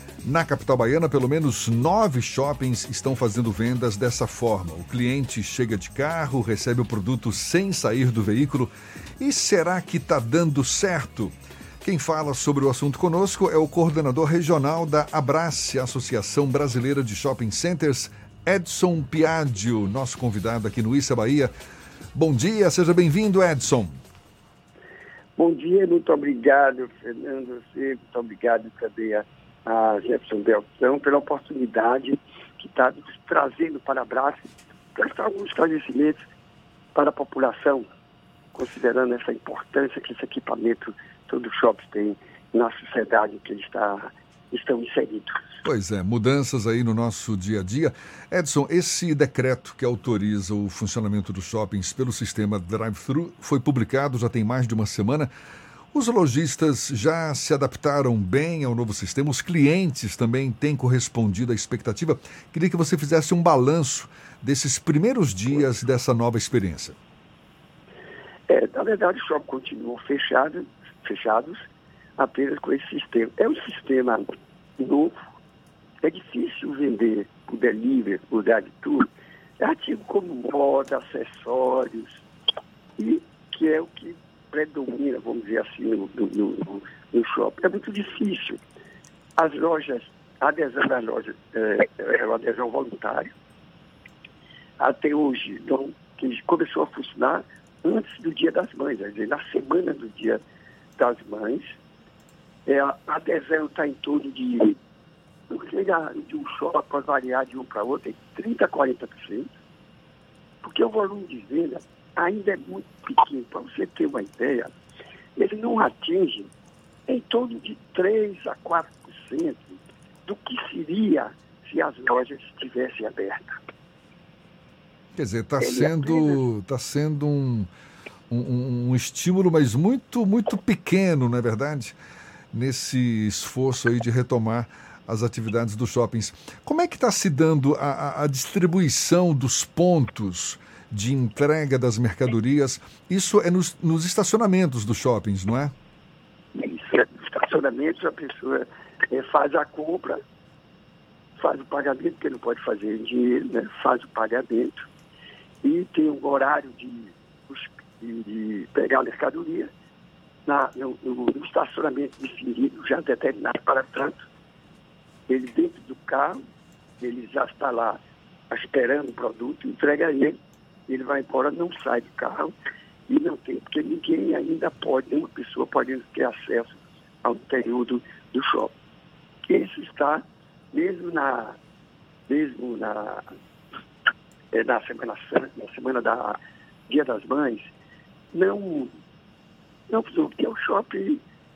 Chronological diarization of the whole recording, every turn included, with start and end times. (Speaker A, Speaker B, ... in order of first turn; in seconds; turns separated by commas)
Speaker A: 0.2-21.5, Speaker A: 22.1-24.0, Speaker B: 25.4-36.2, Speaker B: 36.9-37.9, Speaker B: 38.5-45.6, Speaker A: 45.6-55.3, Speaker A: 55.9-67.0, Speaker B: 68.5-71.7, Speaker B: 72.2-75.1, Speaker B: 76.0-82.2, Speaker B: 83.0-88.6, Speaker B: 89.4-93.3, Speaker B: 94.8-100.4, Speaker B: 101.0-101.7, Speaker B: 102.7-104.8, Speaker B: 105.5-109.5, Speaker B: 110.6-114.7, Speaker B: 115.3-116.5, Speaker B: 117.1-123.6, Speaker A: 125.2-127.7, Speaker B: 125.6-126.4, Speaker A: 128.3-131.9, Speaker A: 132.5-145.7, Speaker B: 146.5-150.2, Speaker B: 151.4-154.9, Speaker B: 155.6-159.7, Speaker B: 160.4-164.2, Speaker B: 165.3-166.4, Speaker B: 167.0-172.5, Speaker B: 173.1-178.7, Speaker B: 179.5-181.6, Speaker B: 182.3-183.2, Speaker B: 184.5-186.4, Speaker B: 186.9-187.7, Speaker B: 188.3-188.9, Speaker B: 189.9-191.2